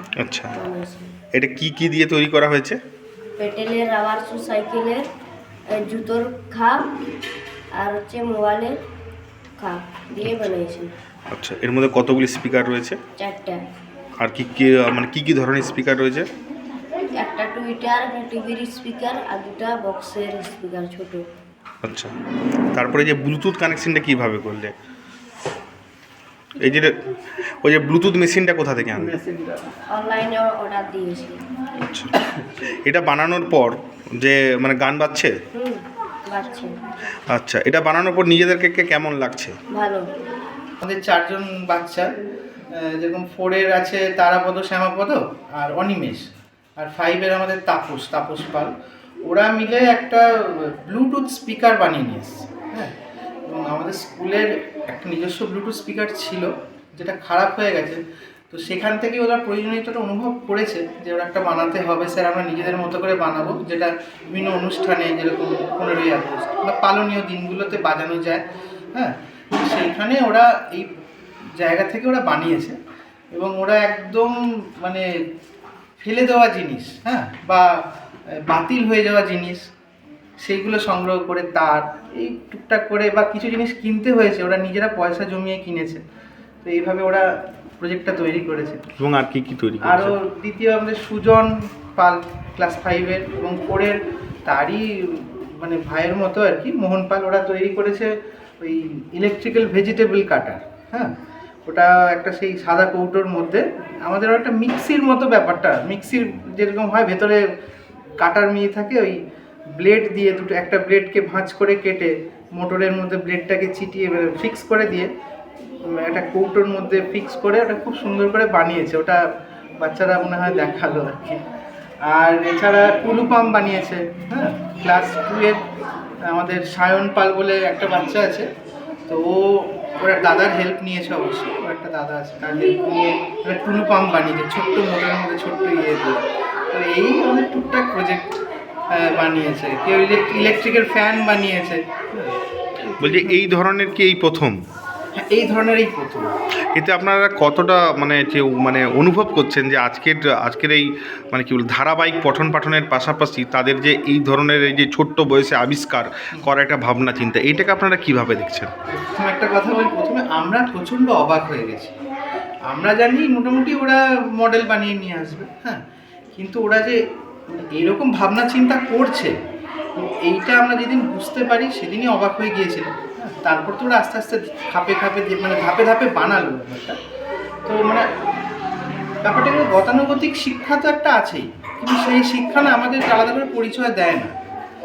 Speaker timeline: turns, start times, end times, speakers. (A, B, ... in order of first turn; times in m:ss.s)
0:00.2-0:00.5 A
0:00.5-0:01.1 B
0:01.3-0:02.8 A
0:03.4-0:05.1 B
0:05.7-0:06.8 B
0:07.8-0:08.8 B
0:09.6-0:10.9 B
0:11.3-0:13.0 A
0:13.2-0:13.6 B
0:14.2-0:16.3 A
0:17.1-0:21.2 B
0:21.8-0:22.1 A
0:22.7-0:24.7 A
0:26.6-0:26.9 A
0:27.6-0:29.2 A
0:29.9-0:31.4 B
0:31.8-0:32.1 A
0:32.8-0:35.3 A
0:35.5-0:36.7 B
0:37.3-0:39.5 A
0:39.7-0:40.0 B
0:40.8-0:42.1 C
0:42.7-0:46.2 C
0:46.8-0:48.7 C
0:49.2-0:52.9 C
0:53.5-0:58.0 C
0:58.5-1:10.9 C
1:11.6-1:12.8 C
1:13.3-1:15.0 C
1:16.0-1:17.7 C
1:18.4-1:19.6 C
1:20.4-1:26.0 C
1:26.6-1:28.8 C
1:29.0-1:30.1 A
1:29.8-1:41.1 C
1:41.6-1:47.4 C
1:48.2-1:49.2 C
1:49.8-1:55.1 C
1:55.8-1:59.2 C
1:59.8-2:01.4 C
2:02.0-2:05.6 C
2:06.3-2:08.5 C
2:09.1-2:16.2 C
2:16.7-2:18.4 C
2:18.9-2:22.3 C
2:22.9-2:23.4 C
2:23.0-2:24.6 A
2:25.2-2:26.3 C
2:26.7-2:38.7 A
2:38.9-2:41.9 C
2:42.7-2:45.8 C
2:46.3-2:47.0 C
2:47.5-2:49.3 C
2:50.0-2:57.0 C
2:57.6-2:58.0 C
2:59.2-3:04.3 C